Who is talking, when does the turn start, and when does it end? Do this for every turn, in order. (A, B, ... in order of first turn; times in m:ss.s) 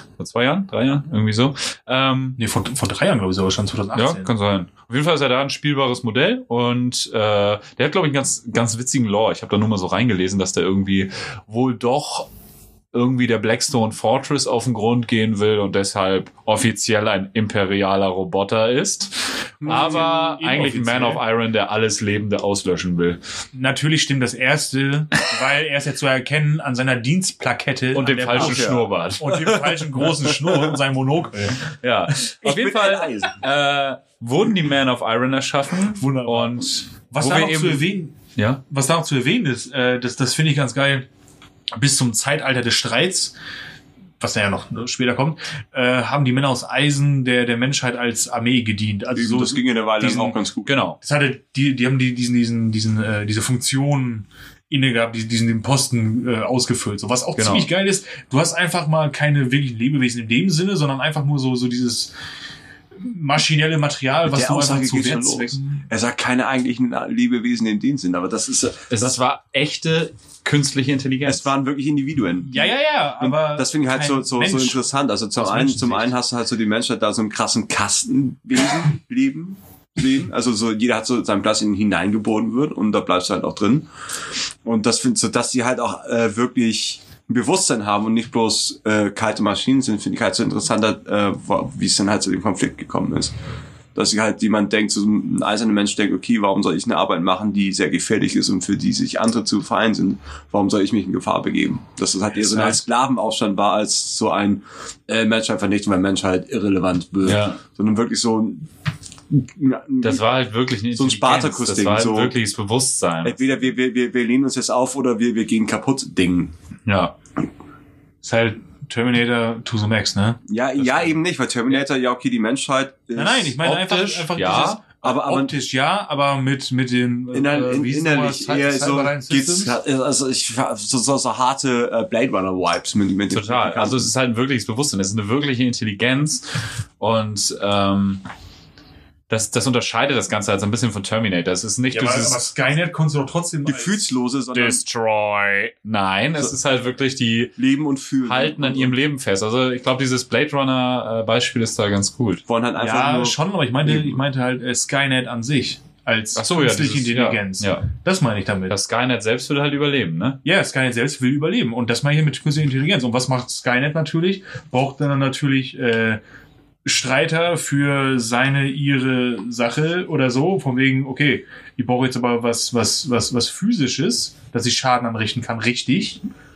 0:00.2-0:02.4 A
0:02.4-0:04.3 B
0:03.9-0:12.3 A
0:12.9-0:23.2 A
0:19.6-0:20.1 C
0:19.6-0:21.2 B
0:23.5-0:31.6 B
0:27.9-0:29.7 A
0:28.3-0:28.9 C
0:31.8-0:38.6 A
0:32.4-0:33.4 C
0:35.9-0:38.2 B
0:38.7-0:41.0 B
0:41.7-0:43.3 B
0:44.2-0:50.3 B
0:49.1-0:50.7 C
0:50.6-0:51.0 A
0:51.0-1:02.1 B
0:57.4-0:57.7 A
1:03.0-1:05.8 B
1:04.3-1:09.2 C
1:08.9-1:11.5 A
1:11.2-1:23.9 C
1:12.4-1:16.1 B
1:24.6-1:33.3 C
1:33.9-1:48.7 C
1:47.2-1:47.6 A
1:49.3-1:50.2 C
1:50.0-1:53.4 A
1:50.9-1:52.4 C
1:53.2-1:56.5 C
1:56.9-1:57.1 A
1:58.2-2:00.4 B
2:00.5-2:05.5 C
2:00.8-2:01.1 A
2:03.2-2:09.8 B
2:04.3-2:04.8 A
2:07.3-2:14.1 C
2:13.3-2:18.2 A
2:19.3-2:22.4 A
2:21.9-2:24.0 B
2:23.6-2:24.8 C
2:24.5-2:27.6 A
2:27.6-2:28.9 C
2:28.2-2:32.4 A
2:32.5-2:34.2 C
2:32.8-2:38.7 B
2:36.4-2:37.8 A
2:38.7-2:40.4 A
2:40.4-2:46.2 B
2:46.8-2:56.2 B